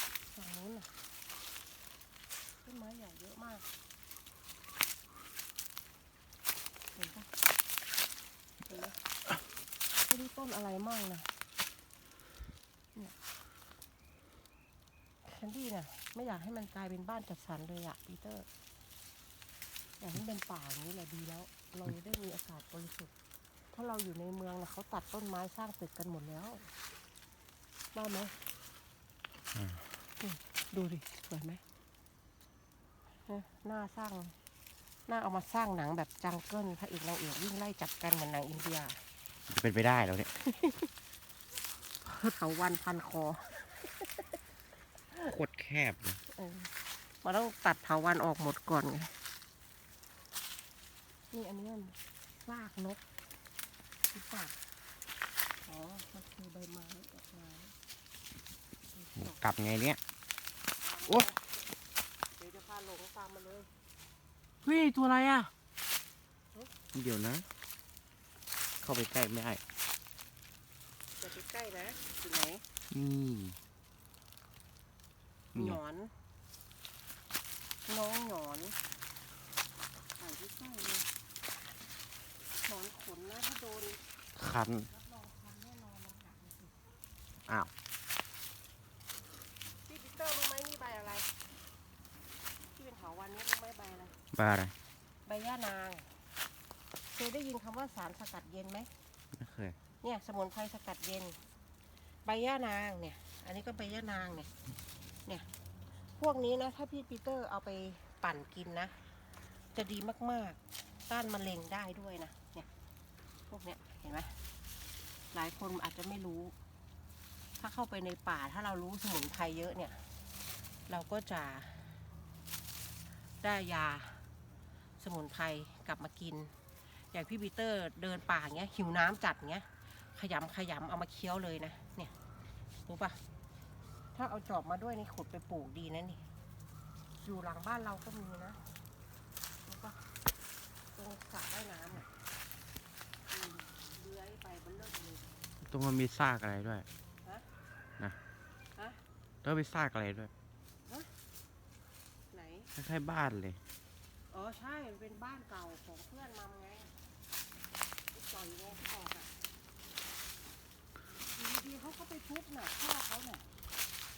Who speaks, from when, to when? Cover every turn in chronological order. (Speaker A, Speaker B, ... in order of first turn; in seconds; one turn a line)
Speaker A: 0.3-0.9
Speaker A: 2.6-3.7
Speaker A: 7.0-7.3
Speaker A: 8.7-9.0
Speaker A: 10.1-11.3
Speaker A: 15.2-18.5
Speaker A: 20.0-23.1
Speaker A: 23.7-26.7
Speaker A: 27.9-28.4
Speaker B: 29.5-29.8
Speaker A: 30.2-31.6
Speaker A: 33.3-34.4
Speaker A: 35.1-39.0
Speaker B: 39.5-40.3
Speaker A: 40.4-40.9
Speaker A: 42.0-44.4
Speaker B: 45.2-46.2
Speaker A: 46.3-49.1
Speaker A: 51.3-53.0
Speaker A: 54.1-54.6
Speaker A: 55.7-57.7
Speaker A: 58.9-59.4
Speaker B: 59.2-60.0
Speaker A: 60.8-61.5
Speaker A: 62.4-63.7
Speaker B: 64.7-65.5
Speaker B: 66.9-67.5
Speaker B: 68.8-69.6
Speaker A: 71.2-72.6
Speaker B: 72.9-73.6
Speaker B: 75.5-75.8
Speaker A: 75.6-76.1
Speaker A: 77.9-78.8
Speaker A: 80.2-81.1
Speaker A: 82.6-84.0
Speaker B: 84.4-84.9
Speaker A: 84.9-86.8
Speaker B: 87.5-87.7
Speaker A: 89.9-91.3
Speaker A: 92.7-94.2
Speaker B: 94.3-94.8
Speaker A: 95.2-96.2
Speaker A: 97.1-98.9
Speaker B: 99.3-99.8
Speaker A: 100.0-101.4
Speaker A: 102.2-104.5
Speaker A: 106.2-109.0
Speaker A: 109.7-112.7
Speaker A: 113.5-114.4
Speaker A: 115.3-116.5
Speaker A: 117.6-120.0
Speaker A: 120.9-122.0
Speaker A: 123.4-124.2
Speaker A: 125.0-126.5
Speaker A: 127.1-132.1
Speaker A: 132.9-133.2
Speaker A: 134.2-136.2
Speaker A: 137.2-138.6
Speaker A: 139.7-140.0
Speaker A: 140.9-142.1
Speaker A: 143.3-145.4
Speaker B: 145.6-146.9
Speaker A: 148.8-149.0
Speaker B: 149.4-150.3
Speaker A: 152.3-152.7
Speaker B: 152.8-153.6
Speaker A: 154.3-156.9
Speaker A: 158.1-159.3
Speaker A: 161.3-163.5